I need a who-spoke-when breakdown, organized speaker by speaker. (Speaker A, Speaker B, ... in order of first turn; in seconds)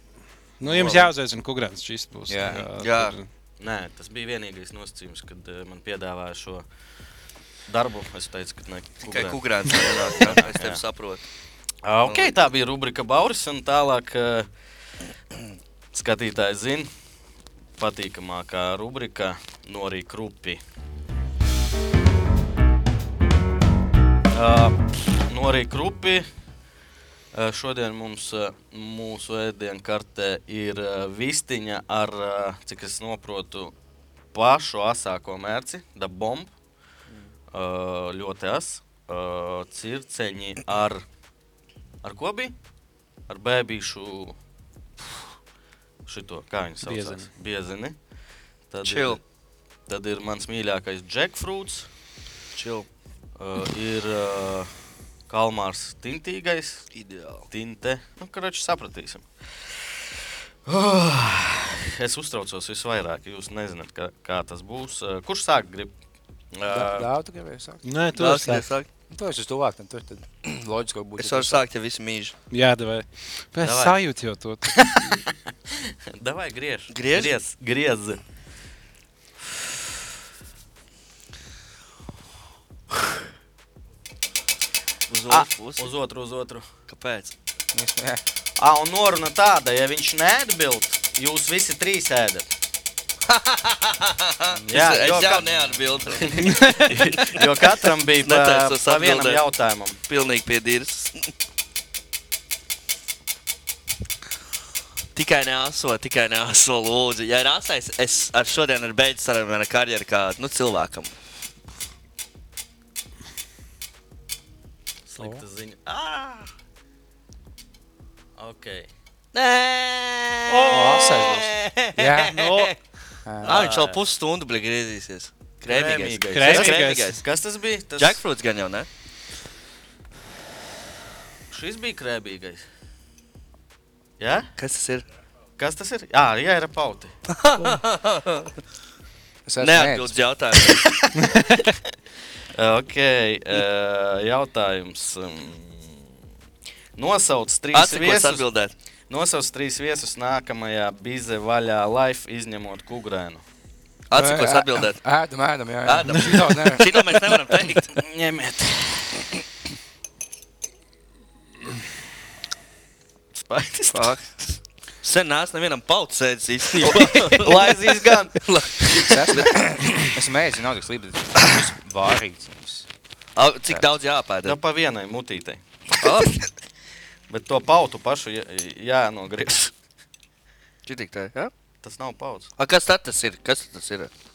Speaker A: 0.6-3.2, 46.8-47.3, 67.8-68.7, 72.5-75.2, 96.4-97.0, 120.5-121.5, 122.4-122.6, 126.3-127.2
Speaker B: 0.6-1.1, 2.5-3.1, 9.0-11.2, 12.1-12.3, 48.8-49.2, 52.5-52.9, 56.9-57.5, 68.1-68.9, 71.2-72.3, 76.9-77.3, 85.1-85.9, 86.9-87.3, 93.3-97.4, 98.2-99.4, 100.1-101.3, 105.1-111.1, 119.3-122.7, 123.4-127.2, 128.0-128.9, 134.6-135.0, 137.3-138.6, 139.6-140.9, 147.7-148.7, 154.1-155.0, 155.8-158.0, 163.9-169.6, 173.3-174.6, 176.0-176.4, 180.8-181.5, 182.6-184.1
Speaker C: 2.3-2.7, 66.7-67.8, 69.1-71.6, 87.7-88.2, 94.5-95.5, 115.2-115.4, 120.7-122.6, 123.2-123.7, 139.4-140.2, 154.1-157.2, 169.0-172.9
Speaker D: 3.6-6.6, 7.7-10.8, 11.8-14.5, 15.9-16.9, 17.8-20.6, 24.3-26.3, 27.3-33.7, 34.3-36.5, 37.5-41.0, 42.0-42.5, 43.3-44.4, 46.0-48.0, 48.7-49.2, 49.9-51.9, 53.4-54.7, 55.3-56.9, 57.5-59.2, 60.6-65.9, 66.5-67.1, 73.6-74.0, 74.7-78.2, 85.3-86.7, 88.6-92.5, 94.7-100.0, 115.1-116.5, 118.4-118.9, 123.4-124.0, 125.7-128.2, 131.5-132.6, 134.2-134.5, 135.6-137.1, 141.0-141.4, 142.5-146.0, 146.9-148.5, 149.1-153.4, 157.9-159.3, 163.3-164.1, 166.8-169.3, 174.4-175.6, 177.3-179.7, 181.8-182.5